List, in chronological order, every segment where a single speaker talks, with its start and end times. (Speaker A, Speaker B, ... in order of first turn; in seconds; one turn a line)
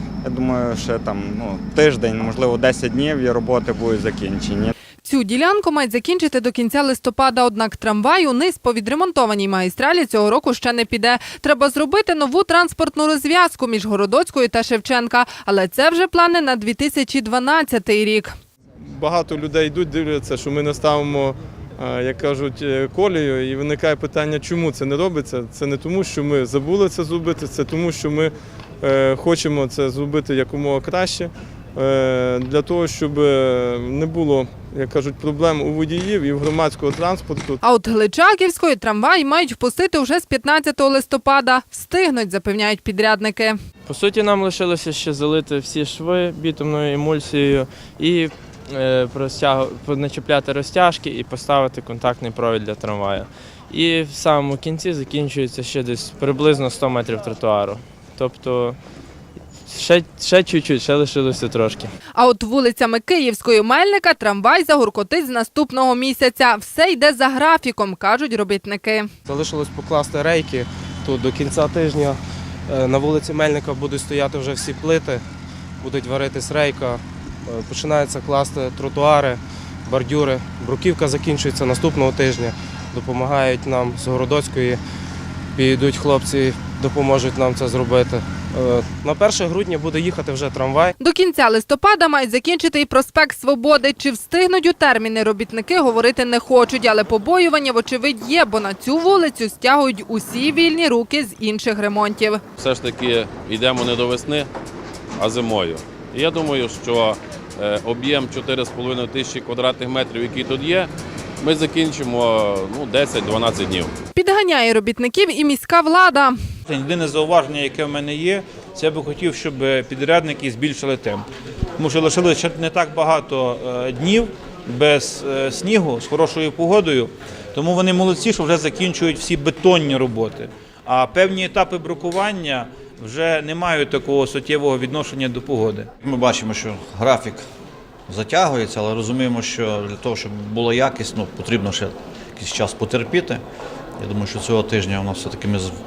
Speaker A: 0.2-4.7
Speaker B: 5.0-18.3
Speaker C: 18.9-37.6
Speaker B: 37.6-43.5
Speaker D: 43.9-58.8
Speaker D: 59.7-61.9
Speaker B: 62.2-69.1
Speaker E: 69.3-75.2
Speaker E: 75.8-84.8
Speaker E: 85.5-90.9
Speaker B: 91.0-102.4
Speaker F: 102.6-104.5
Speaker F: 105.2-110.9
Speaker F: 111.4-113.9
Speaker B: 114.1-116.4
Speaker G: 116.7-135.9
Speaker H: 136.0-137.4
Speaker H: 138.1-143.4
Speaker H: 144.0-145.7